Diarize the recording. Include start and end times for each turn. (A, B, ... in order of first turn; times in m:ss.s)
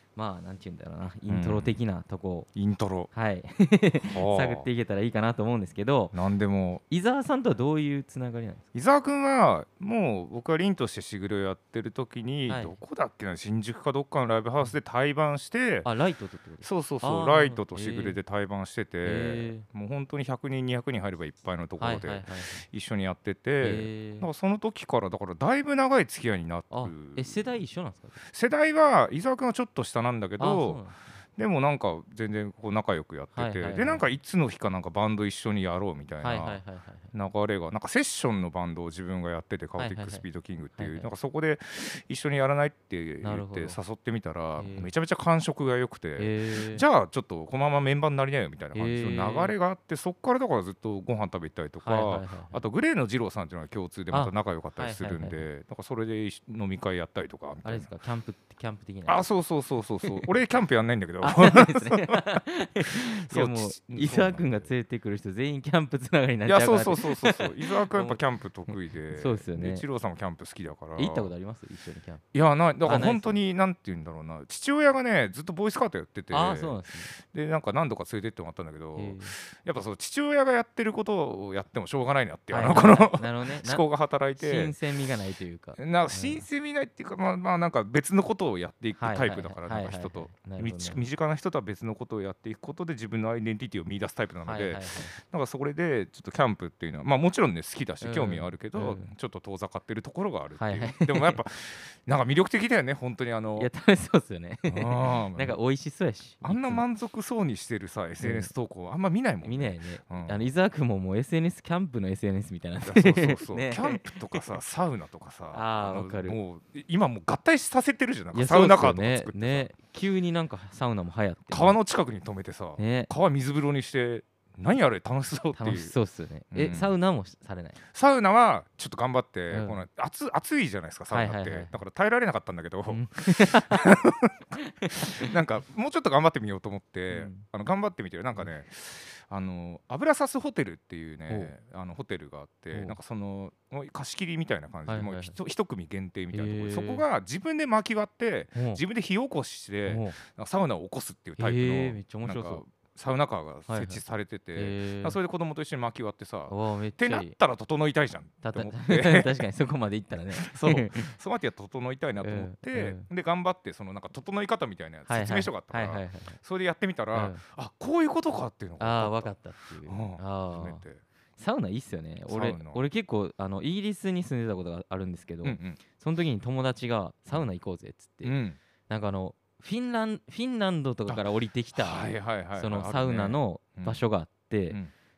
0:00.2-0:02.5 A
0:01.3-0:01.8 B
0:02.6-0:03.1 B
0:03.1-0:06.2 A
0:04.0-0:04.7 B
0:06.1-0:06.8 B
0:06.9-0:08.6 A
0:08.7-0:15.9 B
0:12.5-0:12.8 A
0:15.8-0:18.2 A
0:16.6-0:27.5 B
0:19.0-0:19.6 A
0:21.8-0:22.6 A
0:23.6-0:24.3 A
0:26.7-0:28.2 A
0:28.2-0:30.8 B
0:30.4-0:31.0 A
0:31.4-0:57.9 B
0:33.3-0:34.0 A
0:36.2-0:37.1 A
0:39.8-0:40.2 A
0:40.8-0:41.1 A
0:43.2-0:43.8 A
0:44.6-0:44.9 A
0:46.2-0:46.8 A
0:48.7-0:49.6 A
0:51.8-0:52.6 A
0:54.1-0:55.5 A
0:57.6-0:59.3 A
0:59.1-1:02.4 B
1:00.0-1:00.3 A
1:01.2-1:09.8 A
1:03.3-1:04.7 B
1:06.5-1:11.3 B
1:11.0-1:12.2 A
1:12.3-1:24.7 B
1:12.8-1:13.4 A
1:16.3-1:17.1 A
1:19.0-1:19.3 A
1:22.5-1:23.9 A
1:24.4-1:26.4 A
1:25.8-1:43.7 B
1:29.0-1:31.0 A
1:34.4-1:35.2 A
1:38.0-1:39.1 A
1:40.6-1:41.4 A
1:43.6-1:46.8 A
1:44.7-1:45.6 B
1:46.4-1:50.5 B
1:48.2-1:48.5 A
1:49.4-1:54.6 A
1:52.8-1:59.7 B
1:55.5-1:56.4 A
1:58.3-2:01.8 A
2:01.5-2:05.9 B
2:02.8-2:03.1 A
2:05.6-2:07.8 A
2:06.5-2:06.9 B
2:07.9-2:39.3 B
2:09.5-2:09.8 A
2:11.1-2:11.7 A
2:12.9-2:13.9 A
2:14.6-2:15.2 A
2:17.1-2:17.4 A
2:22.7-2:23.0 A
2:24.9-2:25.4 A
2:26.3-2:27.0 A
2:28.6-2:28.8 A
2:29.9-2:30.2 A
2:31.4-2:32.6 A
2:33.7-2:34.0 A
2:34.6-2:35.2 A
2:36.5-2:37.4 A
2:38.4-2:41.2 A
2:40.3-2:51.0 B
2:42.2-2:43.1 A
2:45.1-2:46.4 A
2:47.1-2:47.4 A
2:48.8-2:50.8 A
2:51.4-2:58.4 A
2:52.3-2:52.8 B
2:55.4-2:55.8 B
2:58.2-2:58.6 B
2:58.9-3:04.8 A
3:01.1-3:04.0 B